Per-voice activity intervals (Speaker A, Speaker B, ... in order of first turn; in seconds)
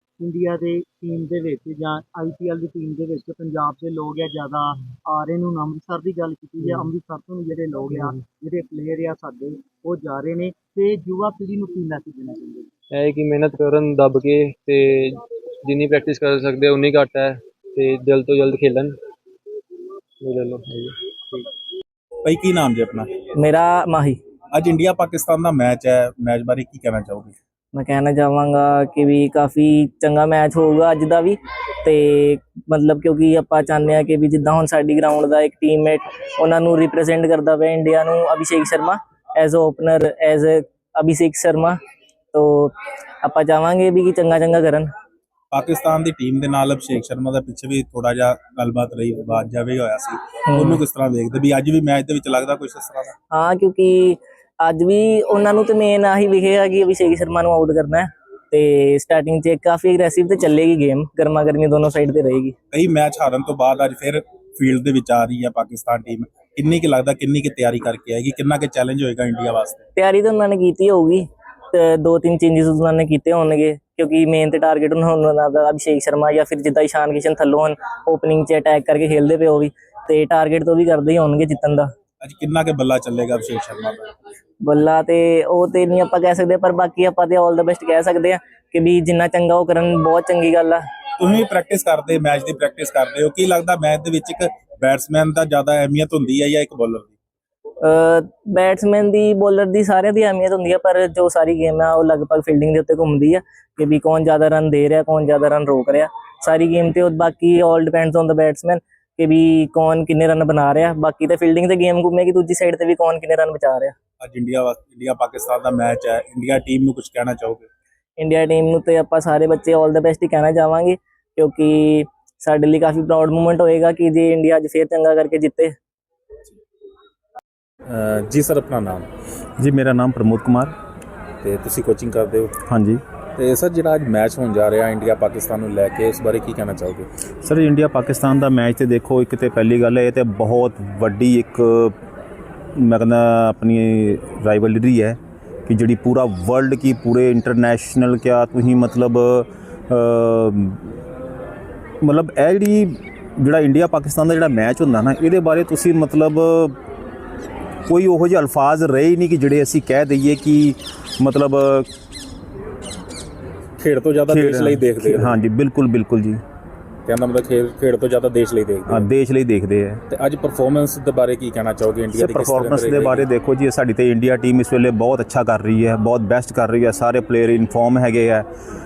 Speaker A: 0.2-12.7
Speaker B: 6.6-6.9, 7.9-8.2, 12.9-19.0, 20.2-21.5
Speaker C: 22.2-23.1, 24.5-27.3, 45.5-53.1, 62.7-69.8, 82.2-84.1, 91.2-97.2, 114.2-117.7, 127.9-129.1, 131.4-132.5, 133.4-137.1, 163.8-165.3, 167.1-169.1, 170.1-173.3
Speaker D: 23.4-24.2, 27.8-41.8, 42.3-44.9, 50.5-50.8, 53.3-62.5, 70.0-81.9, 84.7-90.8, 97.8-114.0, 118.2-125.8
Speaker E: 129.6-130.7, 132.7-133.0, 137.4-141.9, 142.8-151.0, 152.0-156.8, 157.9-161.9, 164.3-166.4, 168.9-170.0, 172.1-178.5